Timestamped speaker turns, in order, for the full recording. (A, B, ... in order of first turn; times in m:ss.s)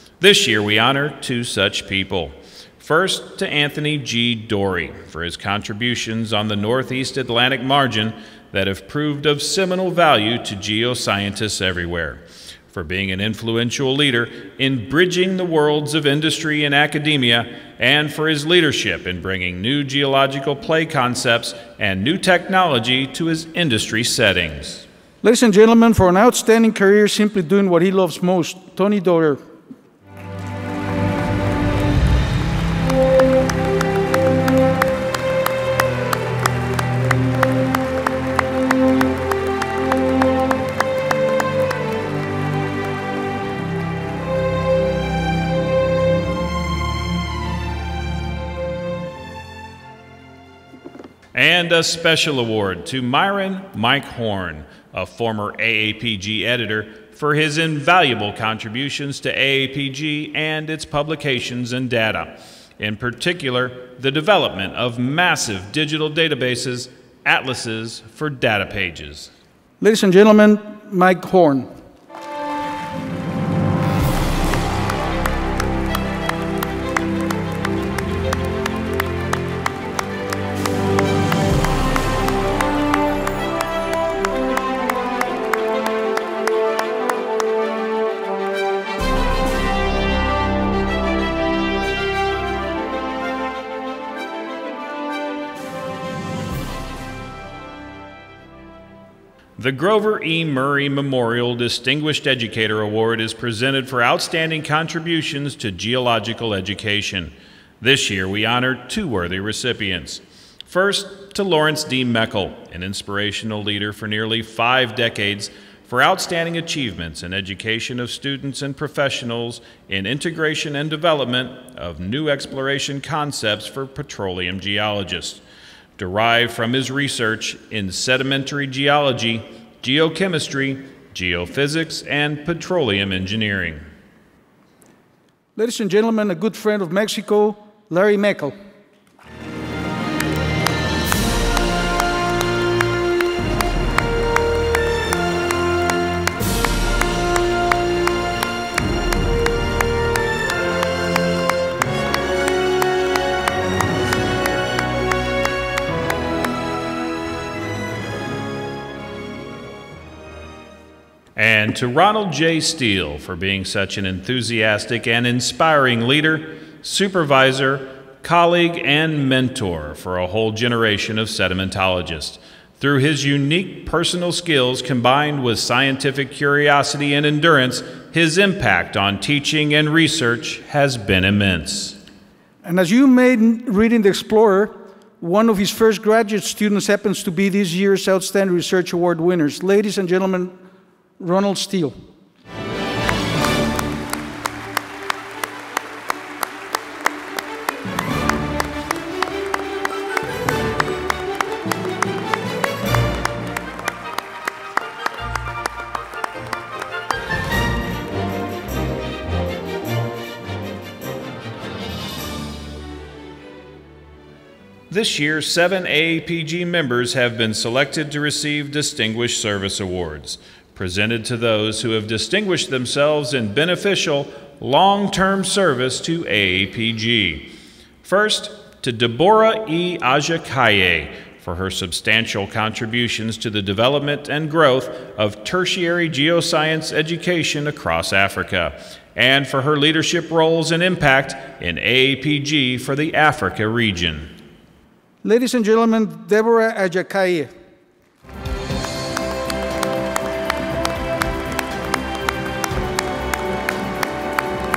0:00.2-0:24.9 A
0:25.2-0:29.4 B
0:51.3-1:09.3 A
1:09.8-1:11.7 B
1:39.6-2:05.4 A
2:06.0-2:13.8 A
2:15.6-2:18.6 B
2:41.4-3:02.0 A
3:02.6-3:10.5 B
3:11.2-3:11.9 B
3:34.9-3:47.5 A
3:48.0-4:04.3 A
4:05.2-4:07.5 B